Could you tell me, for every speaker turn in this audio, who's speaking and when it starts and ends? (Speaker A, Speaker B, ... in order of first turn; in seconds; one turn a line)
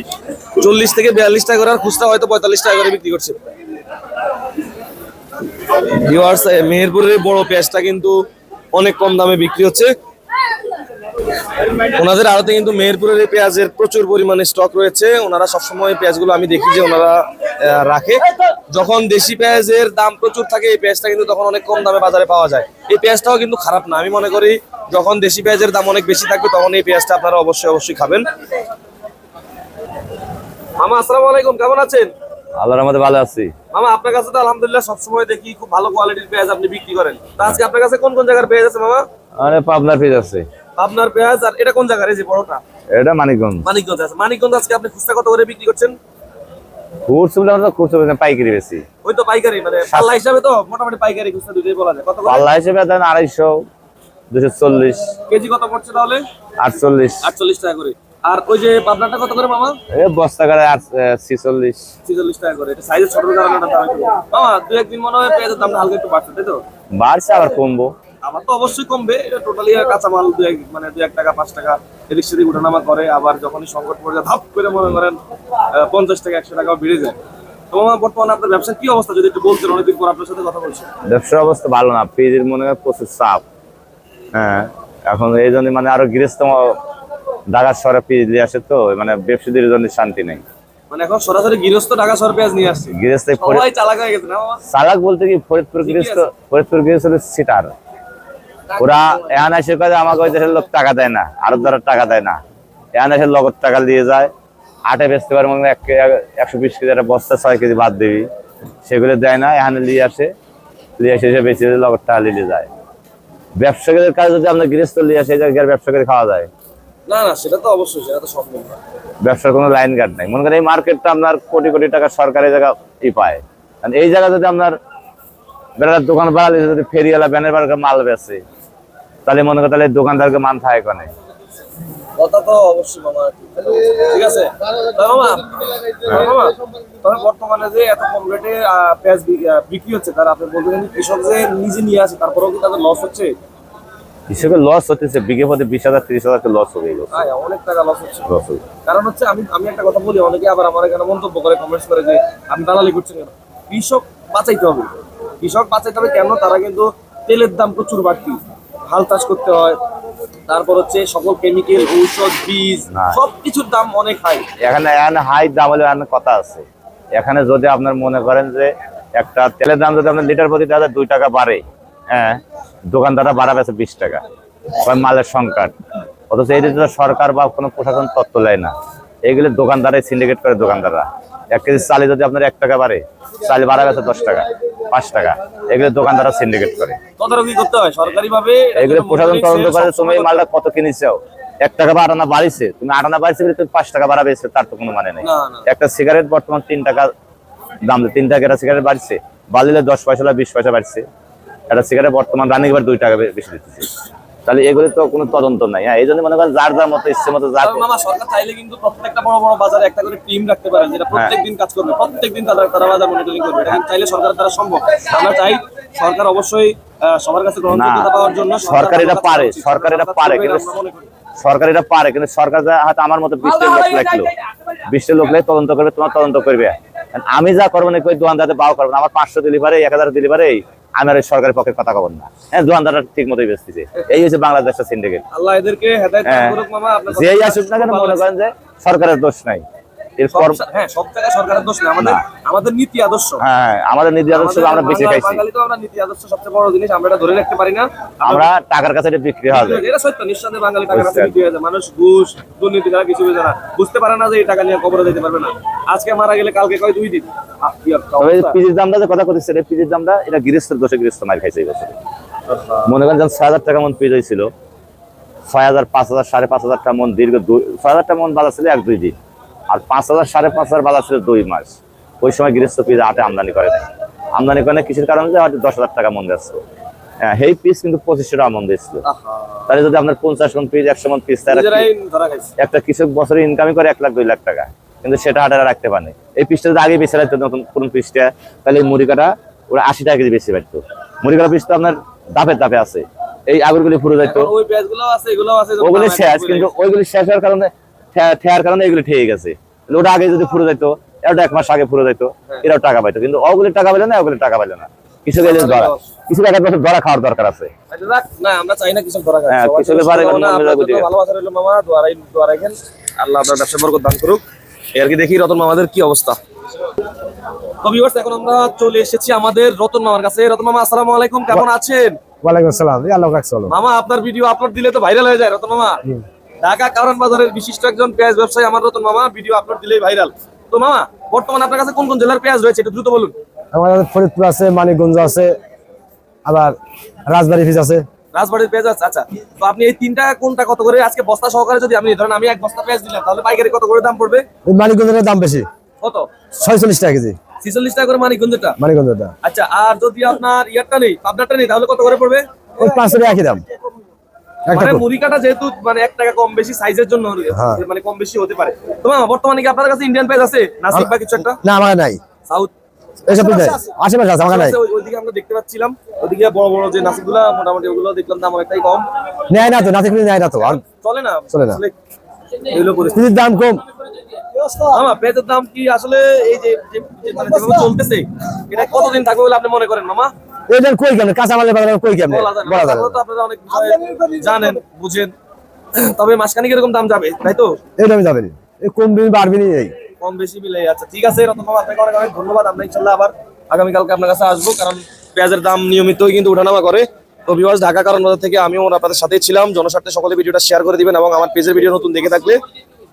Speaker A: 0.6-3.4
Speaker A: 5.7-8.2
Speaker A: 8.7-9.9
Speaker A: 11.9-28.3
Speaker A: 30.8-32.1
Speaker B: 32.6-33.5
Speaker A: 33.7-39.0
Speaker B: 39.4-40.4
Speaker A: 40.8-42.6
Speaker B: 42.9-43.6
Speaker A: 43.6-45.9
Speaker B: 47.1-48.8
Speaker A: 49.0-52.5
Speaker B: 52.2-53.6
Speaker B: 54.3-55.1
Speaker A: 55.3-56.2
Speaker B: 56.6-57.2
Speaker A: 57.2-59.8
Speaker B: 59.9-61.8
Speaker A: 62.0-66.6
Speaker B: 66.9-67.9
Speaker A: 68.2-75.2
Speaker A: 75.7-77.2
Speaker A: 77.7-80.9
Speaker B: 81.1-83.4
Speaker B: 84.3-86.8
Speaker B: 87.5-90.4
Speaker A: 90.9-94.6
Speaker B: 92.9-93.7
Speaker B: 94.7-97.7
Speaker A: 95.8-96.2
Speaker A: 98.7-99.4
Speaker B: 98.8-102.4
Speaker B: 102.9-104.3
Speaker B: 104.9-108.3
Speaker B: 108.8-110.3
Speaker B: 111.0-112.7
Speaker B: 113.6-116.5
Speaker A: 117.1-118.8
Speaker B: 119.2-124.8
Speaker B: 125.8-128.4
Speaker B: 129.2-131.1
Speaker A: 132.2-143.3
Speaker B: 144.3-147.2
Speaker A: 147.1-148.3
Speaker B: 148.3-148.6
Speaker A: 148.8-159.8
Speaker A: 160.5-164.4
Speaker B: 162.9-163.2
Speaker B: 164.6-174.2
Speaker B: 174.8-175.7
Speaker B: 176.3-178.7
Speaker B: 179.2-187.0
Speaker A: 187.2-190.4
Speaker B: 188.8-197.1
Speaker A: 195.2-195.7
Speaker B: 197.8-201.0
Speaker B: 201.7-207.8
Speaker A: 207.6-221.1
Speaker B: 217.7-218.1
Speaker B: 218.7-220.7
Speaker B: 221.4-224.3
Speaker B: 224.9-235.2
Speaker A: 235.3-238.2
Speaker B: 236.2-236.6
Speaker B: 237.1-239.6
Speaker B: 240.2-240.6
Speaker A: 240.3-243.4
Speaker B: 243.4-245.4
Speaker A: 244.3-248.5
Speaker B: 248.2-249.8
Speaker A: 249.5-258.6
Speaker B: 250.9-251.3
Speaker B: 258.2-261.9
Speaker A: 262.5-262.9
Speaker B: 262.9-264.5
Speaker B: 265.5-269.1
Speaker B: 269.7-276.6
Speaker B: 277.2-279.0
Speaker A: 279.0-279.7
Speaker B: 279.7-281.9
Speaker A: 281.5-282.5
Speaker B: 282.6-294.5
Speaker A: 294.2-296.7
Speaker B: 295.8-307.7
Speaker A: 305.4-306.0
Speaker A: 307.9-314.4
Speaker B: 309.5-311.1
Speaker A: 314.9-316.4
Speaker A: 317.8-322.2
Speaker C: 322.4-323.7
Speaker A: 323.7-326.0
Speaker A: 326.6-333.3
Speaker C: 333.7-335.6
Speaker C: 336.4-338.0
Speaker A: 338.3-344.4
Speaker C: 344.6-345.6
Speaker A: 346.0-346.3
Speaker C: 346.6-347.4
Speaker A: 347.6-348.8
Speaker C: 348.8-349.3
Speaker A: 349.4-353.2
Speaker C: 352.8-353.6
Speaker C: 354.7-355.0
Speaker A: 354.7-361.6
Speaker C: 357.5-357.8
Speaker C: 360.9-362.2
Speaker A: 362.5-362.7
Speaker C: 363.2-364.8
Speaker A: 363.3-369.1
Speaker C: 369.5-370.8
Speaker A: 370.6-371.9
Speaker C: 371.5-371.8
Speaker A: 372.6-373.2
Speaker C: 373.1-373.8
Speaker C: 374.6-374.8
Speaker A: 374.9-380.3
Speaker C: 380.7-383.1
Speaker A: 382.3-385.3
Speaker C: 383.8-384.7
Speaker A: 385.9-387.7
Speaker C: 388.0-389.9
Speaker A: 390.2-402.6